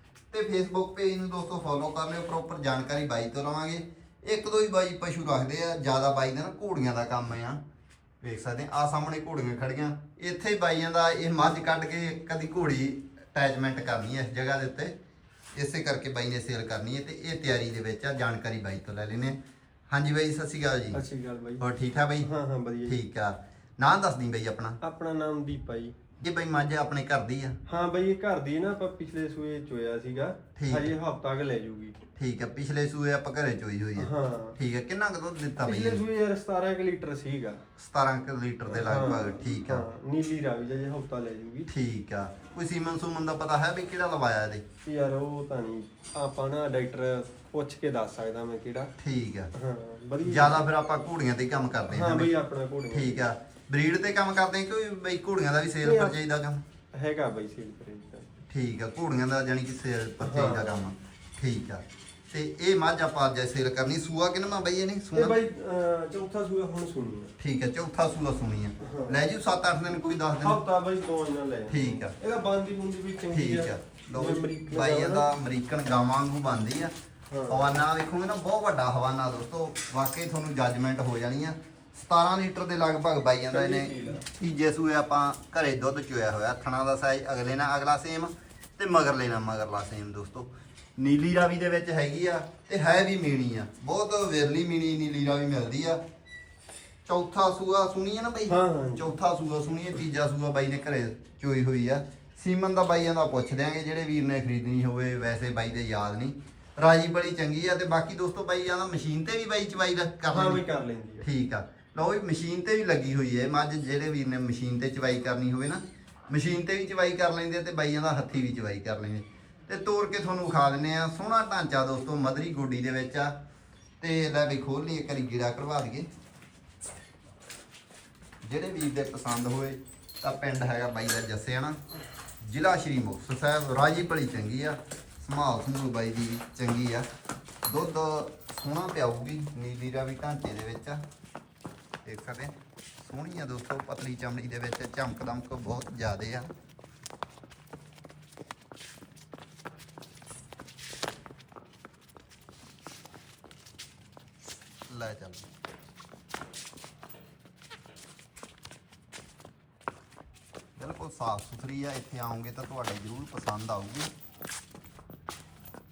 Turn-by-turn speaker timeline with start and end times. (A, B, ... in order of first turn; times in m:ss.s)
0:00.3-0:07.6 A
0:08.2-0:15.0 A
0:15.5-0:19.4 A
0:19.9-0:21.0 A
0:20.9-0:21.6 B
0:21.6-0:22.3 A
0:22.2-0:23.0 B
0:22.8-0:24.8 A
0:24.8-0:25.9 B
0:26.2-0:27.6 A
0:27.7-0:32.0 B
0:30.5-0:30.9 A
0:32.1-0:36.0 A
0:34.0-0:34.6 B
0:35.6-0:37.6 B
0:37.8-0:39.8 A
0:38.6-0:41.7 B
0:41.7-0:44.6 A
0:44.8-0:48.9 B
0:49.0-0:49.5 A
0:49.5-0:50.6 B
0:50.2-0:52.3 A
0:51.9-0:53.2 B
0:52.9-0:56.6 A
0:55.8-0:56.2 B
0:56.9-0:58.3 B
0:58.5-1:05.4 A
1:00.2-1:00.8 B
1:05.1-1:07.3 B
1:07.4-1:10.6 A
1:08.8-1:09.2 B
1:10.4-1:15.3 B
1:11.7-1:12.1 A
1:13.3-1:16.9 A
1:17.3-1:17.7 B
1:17.5-1:36.0 A
1:23.5-1:24.2 B
1:37.0-1:50.6 A
1:38.5-1:39.0 B
1:50.3-1:51.2 B
1:51.2-2:03.4 A
2:04.0-2:06.1 A
2:08.4-2:11.8 A
2:12.4-2:17.1 A
2:17.6-2:21.0 A
2:22.0-2:26.5 A
2:34.9-2:35.5 A
2:40.8-2:44.1 A